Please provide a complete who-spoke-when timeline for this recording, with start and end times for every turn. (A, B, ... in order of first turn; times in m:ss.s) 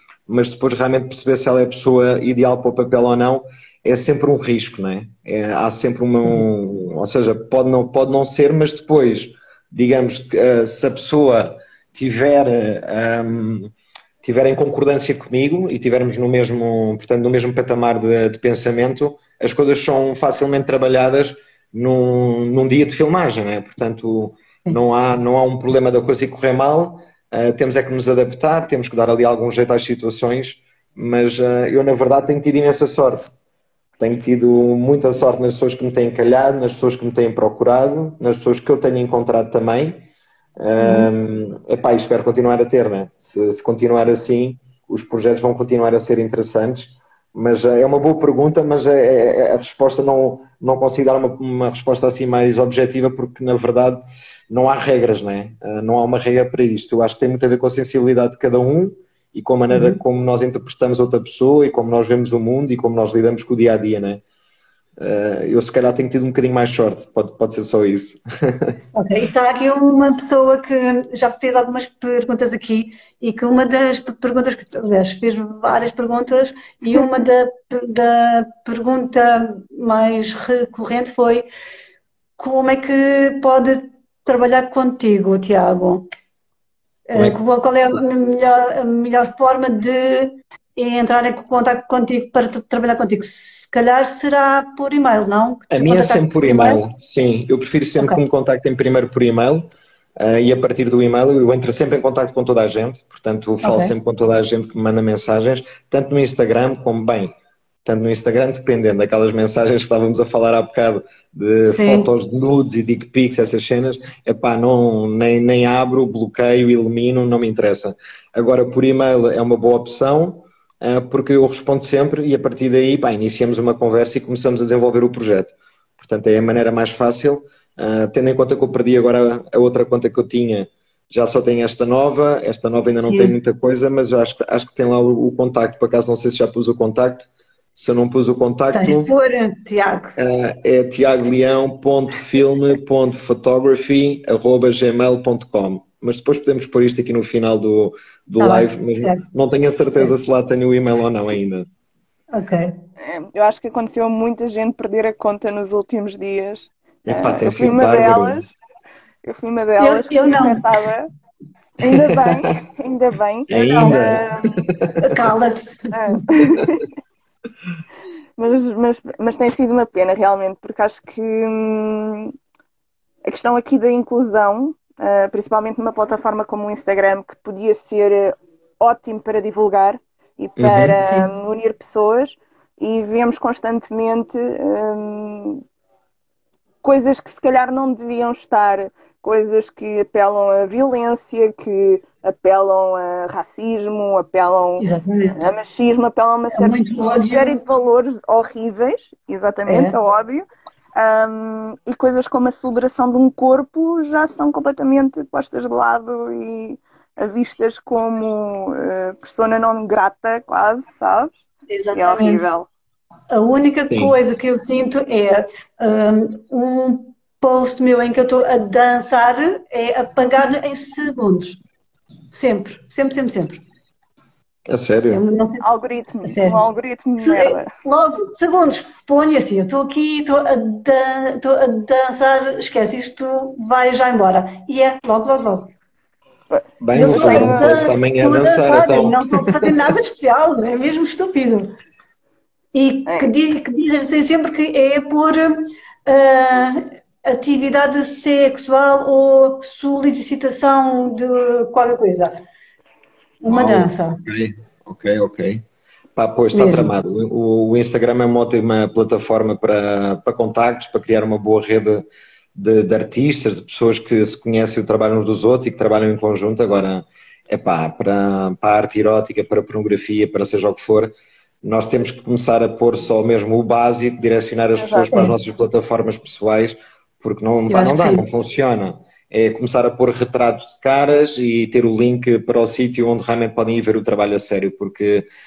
0:00.3-0:13.7 A
0:14.2-0:33.3 A
0:34.0-0:40.0 A
0:40.6-1:04.2 A
0:40.8-0:41.1 B
0:59.7-1:00.0 B
1:05.0-1:08.7 A
1:08.9-1:21.4 B
1:22.4-1:26.1 B
1:27.1-1:36.8 B
1:35.7-1:47.3 A
1:43.6-1:43.9 B
1:47.8-2:19.1 A
1:51.7-1:52.1 B
2:13.0-2:13.3 B
2:18.7-2:20.1 B
2:20.2-2:31.7 A
2:28.4-2:29.2 B
2:32.3-2:32.8 B
2:33.0-2:38.5 C
2:37.0-2:38.4 A
2:39.2-2:41.1 C
2:39.8-2:40.6 B
2:41.8-2:44.6 C
2:41.9-2:42.4 A
2:43.5-2:45.0 A
2:43.6-2:44.2 B
2:45.0-2:46.2 B
2:45.9-2:46.8 C
2:48.4-2:52.3 C
2:53.2-3:05.6 C
3:00.6-3:01.0 A
3:06.8-3:31.4 C
3:14.8-3:15.4 B
3:16.5-3:17.5 B
3:19.6-3:19.9 B
3:31.7-3:32.4 B
3:31.9-3:32.7 C
3:33.3-3:41.6 B
3:33.9-3:34.1 A
3:42.3-3:43.6 B
3:44.7-3:45.2 A
3:45.1-3:45.6 B
3:45.6-3:47.7 C
3:46.2-3:46.6 B
3:47.2-3:55.7 B
3:56.5-3:57.7 C
3:56.8-3:59.7 A
3:56.9-4:01.7 B
4:02.7-4:12.4 B
4:03.0-4:03.3 C
4:13.4-4:14.2 B
4:13.5-4:15.6 A
4:16.2-4:31.1 A
4:16.5-4:16.9 B
4:31.6-4:45.2 A
4:34.8-4:35.2 C
4:37.7-4:38.2 B